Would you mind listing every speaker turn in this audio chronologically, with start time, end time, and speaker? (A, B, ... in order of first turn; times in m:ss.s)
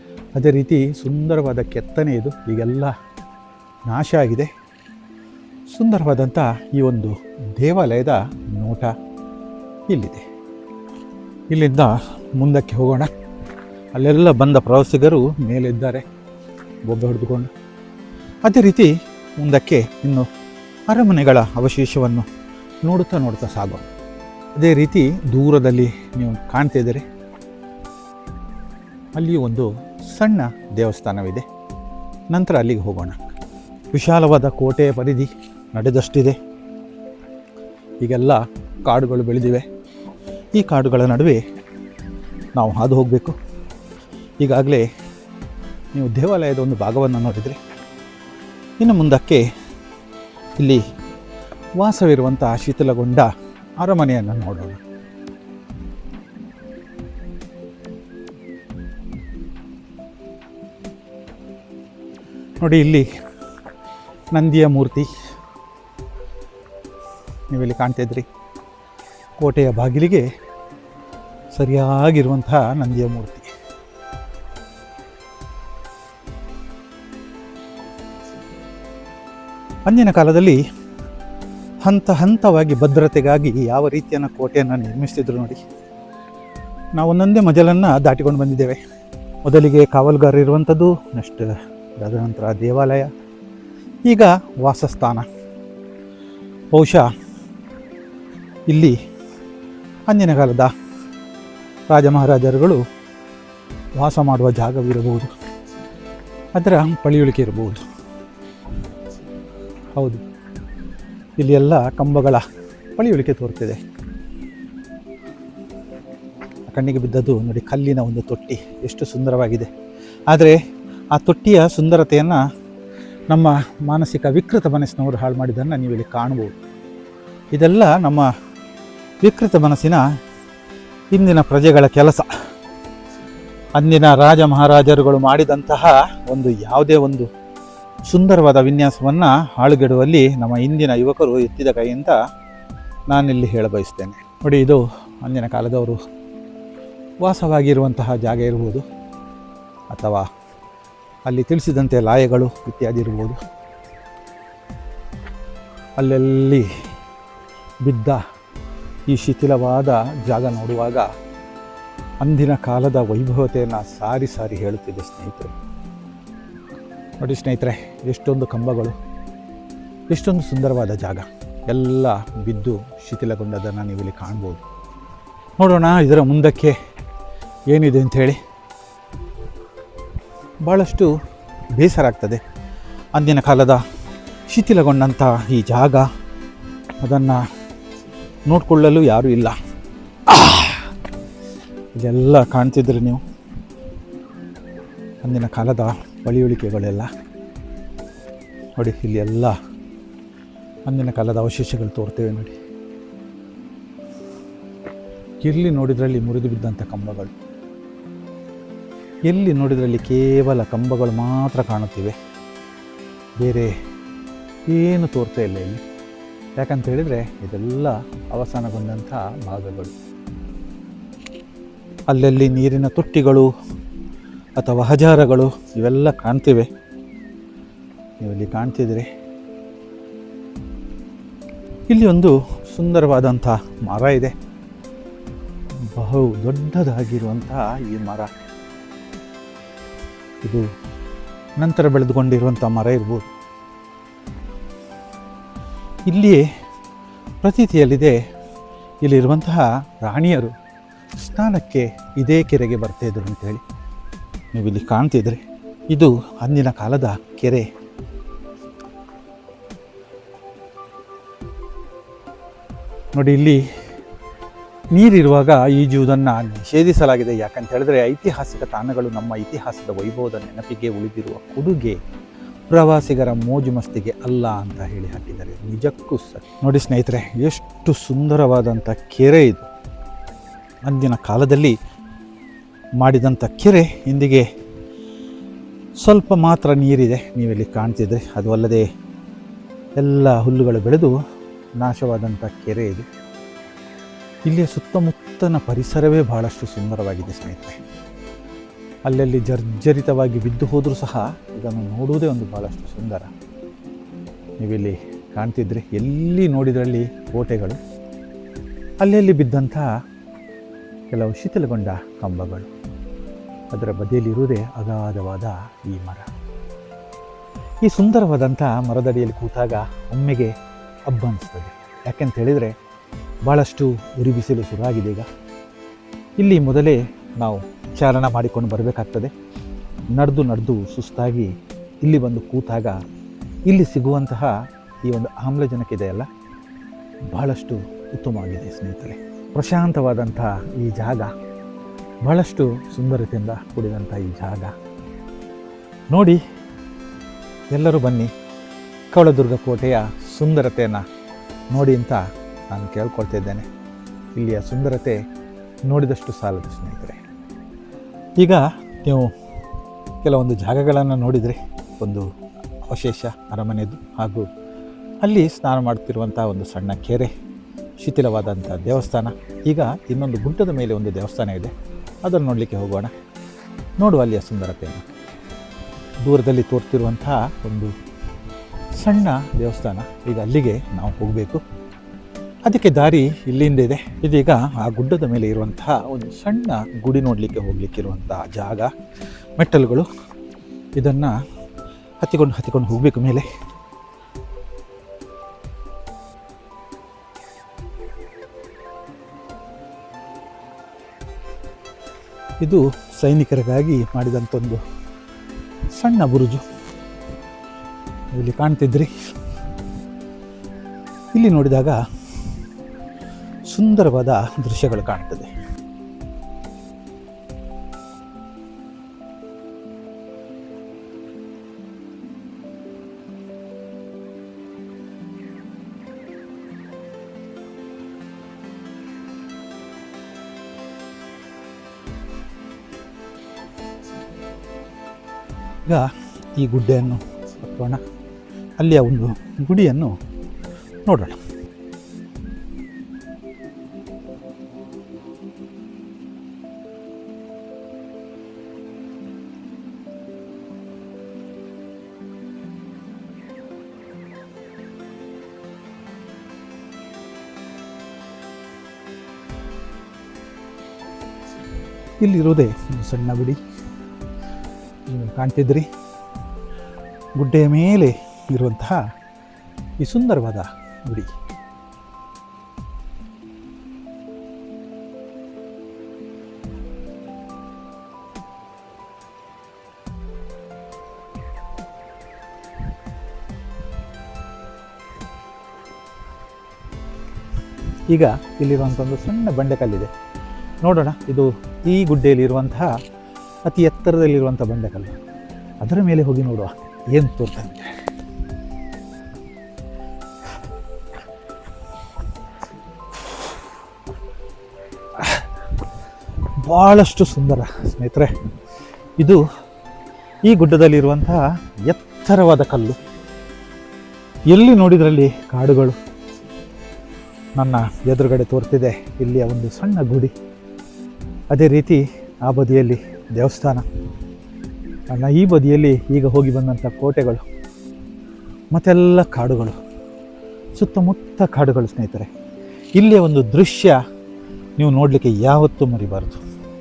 0:00.3-0:02.9 A
0:03.9-0:04.5 A
0:05.7-0:08.9 A
0:09.9-0:10.2 A
0:11.5-0:13.1 A
0:13.9-0:16.0 A
0:16.9-0:17.5 A
0:18.4-0:20.2 A
0:20.9-0:22.3 A
0:22.8-0:23.9 A
0:24.6-0:27.0 A
0:29.2-0:31.4 A
0:32.3-0:33.2 A
0:33.9-0:36.4 A
0:38.0-0:39.7 A
0:40.5-0:41.4 A
0:42.6-0:43.4 A
0:44.4-0:44.9 A
0:45.9-0:47.6 A
0:48.8-0:49.4 A
0:51.8-0:53.3 A
0:53.8-0:54.8 A
1:02.6-1:03.1 A
1:04.3-1:05.1 A
1:07.5-1:08.2 A
1:09.4-1:10.2 A
1:11.5-1:13.5 A
1:19.8-1:20.6 A
1:21.8-1:25.6 A
1:27.0-1:28.8 A
1:29.4-1:33.1 A
1:34.0-1:35.2 A
1:36.7-1:37.0 A
1:38.7-1:39.0 A
1:40.1-1:40.7 A
1:41.9-1:42.8 A
1:44.0-1:45.3 A
1:46.5-1:47.8 A
1:50.0-1:50.2 A
1:51.4-1:52.4 A
1:53.0-1:53.8 A
1:56.7-1:59.7 A
2:00.3-2:00.6 A
2:01.1-2:02.4 A
2:03.3-2:06.6 A
2:07.5-2:08.3 A
2:09.2-2:10.0 A
2:11.1-2:12.3 A
2:13.8-2:17.3 A
2:18.1-2:22.1 A
2:23.1-2:26.0 A
2:27.2-2:28.8 A
2:29.9-2:30.2 A
2:31.2-2:33.4 A
2:36.0-2:36.7 A
2:37.8-2:38.2 A
2:39.1-2:41.1 A
2:42.2-2:45.5 A
2:47.2-2:49.0 A
2:50.1-2:54.6 A
2:55.6-2:56.8 A
2:57.7-2:58.4 A
3:00.6-3:01.1 A
3:01.7-3:02.4 A
3:03.1-3:03.8 A
3:04.5-3:06.1 A
3:07.0-3:07.4 A
3:08.5-3:09.6 A
3:10.3-3:10.9 A
3:11.9-3:13.2 A
3:15.2-3:17.1 A
3:18.8-3:19.6 A
3:20.9-3:22.5 A
3:25.4-3:27.3 A
3:29.3-3:32.2 A
3:33.4-3:33.7 A
3:34.7-3:35.8 A
3:36.6-3:39.9 A
3:42.1-3:43.5 A
3:44.6-3:46.7 A
3:48.2-3:49.1 A
3:51.9-3:54.3 A
3:55.9-3:58.3 A
4:01.6-4:03.3 A
4:06.1-4:06.4 A
4:07.4-4:08.2 A
4:09.0-4:10.5 A
4:11.2-4:13.6 A
4:14.5-4:17.7 A
4:23.1-4:23.6 A
4:24.9-4:32.0 A
4:32.7-4:39.7 A
4:40.9-4:41.7 A
4:43.0-4:44.4 A
4:46.0-4:48.8 A
4:50.0-4:51.1 A
4:51.8-4:53.0 A
4:54.5-4:57.8 A
4:59.0-5:03.3 A
5:04.6-5:07.8 A
5:09.0-5:09.9 A
5:11.1-5:12.7 A
5:13.7-5:16.3 A
5:17.8-5:20.5 A
5:21.1-5:22.7 A
5:23.4-5:25.3 A
5:26.4-5:29.3 A
5:30.1-5:31.5 A
5:32.0-5:33.0 A
5:33.7-5:34.5 A
5:35.0-5:36.3 A
5:37.3-5:41.3 A
5:42.2-5:44.7 A
5:46.1-5:46.4 A
5:47.7-5:48.3 A
5:49.1-5:51.0 A
5:51.7-5:53.6 A
5:54.4-5:55.2 A
5:55.8-5:57.2 A
5:58.4-5:59.3 A
6:00.2-6:02.2 A
6:02.9-6:04.5 A
6:05.2-6:07.3 A
6:08.0-6:11.7 A
6:12.2-6:13.1 A
6:14.0-6:15.0 A
6:16.2-6:17.9 A
6:19.0-6:21.6 A
6:22.6-6:28.9 A
6:29.6-6:30.1 A
6:31.0-6:31.3 A
6:32.2-6:33.4 A
6:42.6-6:44.8 A
6:45.9-6:46.6 A
6:48.3-6:49.1 A
6:51.3-6:52.0 A
6:53.7-6:55.5 A
7:15.8-7:18.0 A
7:18.8-7:20.2 A
7:21.0-7:21.4 A
7:42.2-7:43.6 A
7:45.1-7:45.8 A
7:47.4-7:49.0 A
7:50.0-7:51.3 A
8:08.1-8:10.1 A
8:10.8-8:12.9 A
8:13.6-8:15.2 A
8:15.8-8:17.9 A
8:25.2-8:25.4 A
8:26.6-8:28.3 A
8:30.4-8:33.0 A
8:34.5-8:35.9 A
8:37.6-8:40.3 A
8:41.5-8:43.8 A
8:45.1-8:47.4 A
8:48.7-8:49.8 A
8:50.8-8:52.3 A
8:53.0-8:54.0 A
8:54.8-8:56.4 A